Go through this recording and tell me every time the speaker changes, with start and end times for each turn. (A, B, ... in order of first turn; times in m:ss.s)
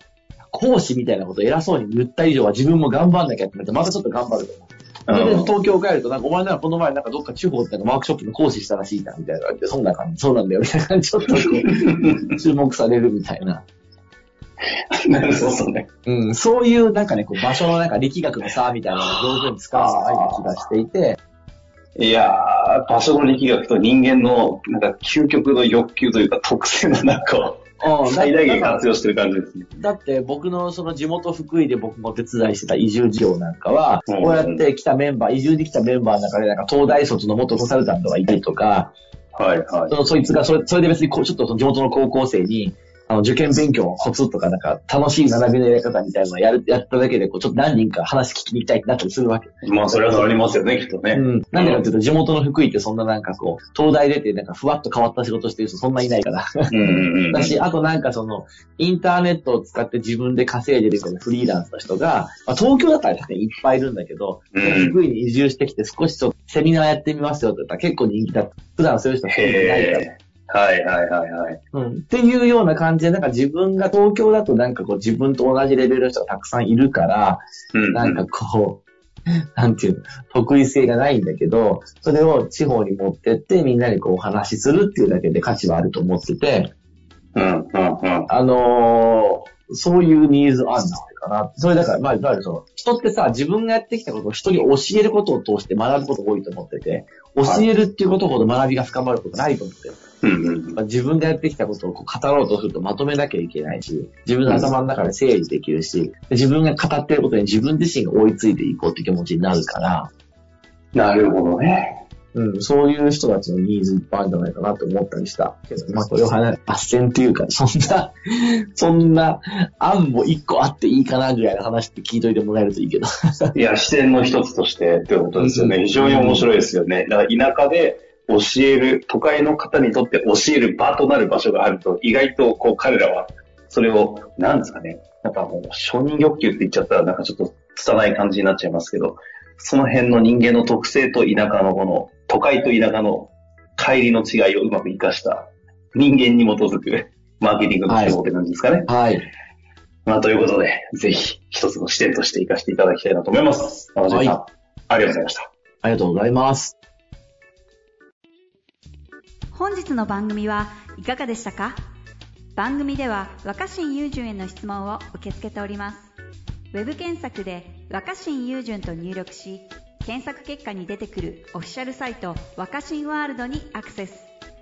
0:00.5-0:13.6 A
0:05.1-0:05.5 B
0:11.2-0:12.3 B
0:14.9-0:15.9 B
0:16.0-0:21.2 A
0:19.1-0:20.4 B
0:22.0-0:29.7 B
0:27.8-0:28.8 A
0:29.7-0:38.9 A
0:34.1-0:34.6 B
0:39.3-0:39.9 B
0:39.9-0:50.3 A
0:49.6-0:51.8 B
0:51.1-1:10.0 A
0:56.7-0:57.6 B
1:04.5-1:05.0 B
1:09.3-1:11.6 B
1:11.7-1:26.7 A
1:17.7-1:18.2 B
1:27.3-1:28.3 B
1:28.3-1:40.0 A
1:40.2-1:40.8 B
1:40.8-1:50.1 A
1:50.9-1:52.0 B
1:52.3-2:03.5 A
2:03.5-2:28.9 B
2:05.4-2:06.5 A
2:27.9-2:28.2 A
2:28.8-2:29.3 A
2:30.0-2:35.5 B
2:34.1-2:34.4 A
2:35.8-2:36.8 A
2:39.5-2:41.8 C
2:42.6-2:46.1 C
2:46.7-2:54.3 C